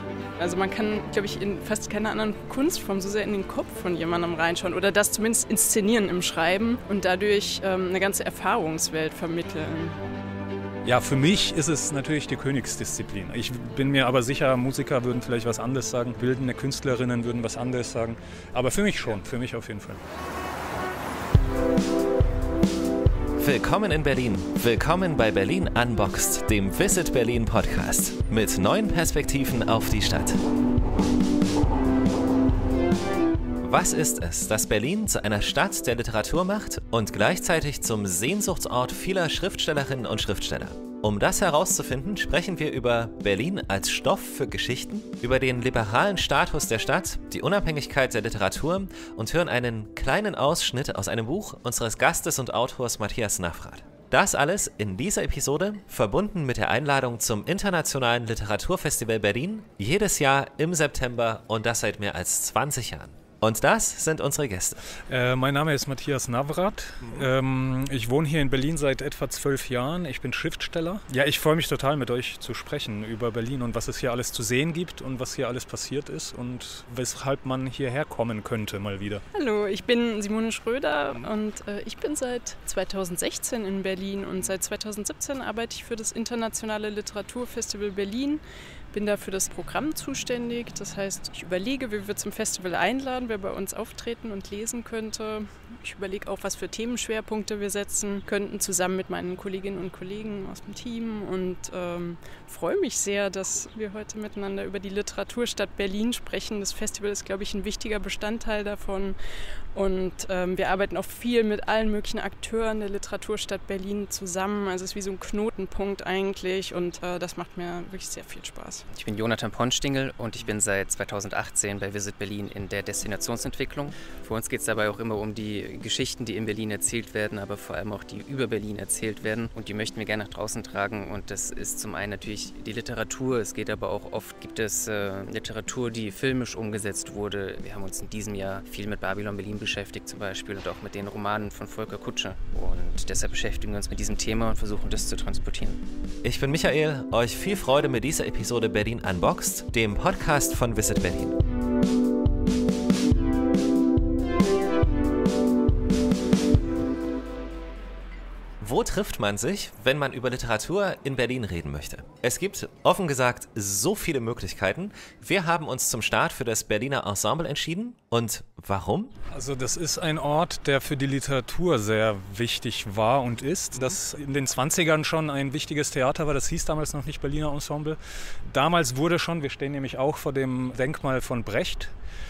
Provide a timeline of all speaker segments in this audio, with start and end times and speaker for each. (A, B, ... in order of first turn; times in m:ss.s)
0:00.4-0:10.0 A
0:10.8-0:20.0 B
0:23.4-0:30.4 C
0:33.6-1:04.8 C
1:05.1-1:19.2 B
1:19.3-1:28.4 A
1:28.9-1:49.2 A
1:49.7-1:58.8 A
1:58.9-2:25.8 D
2:26.2-2:31.4 C
2:38.6-2:49.1 C
2:49.3-3:01.9 B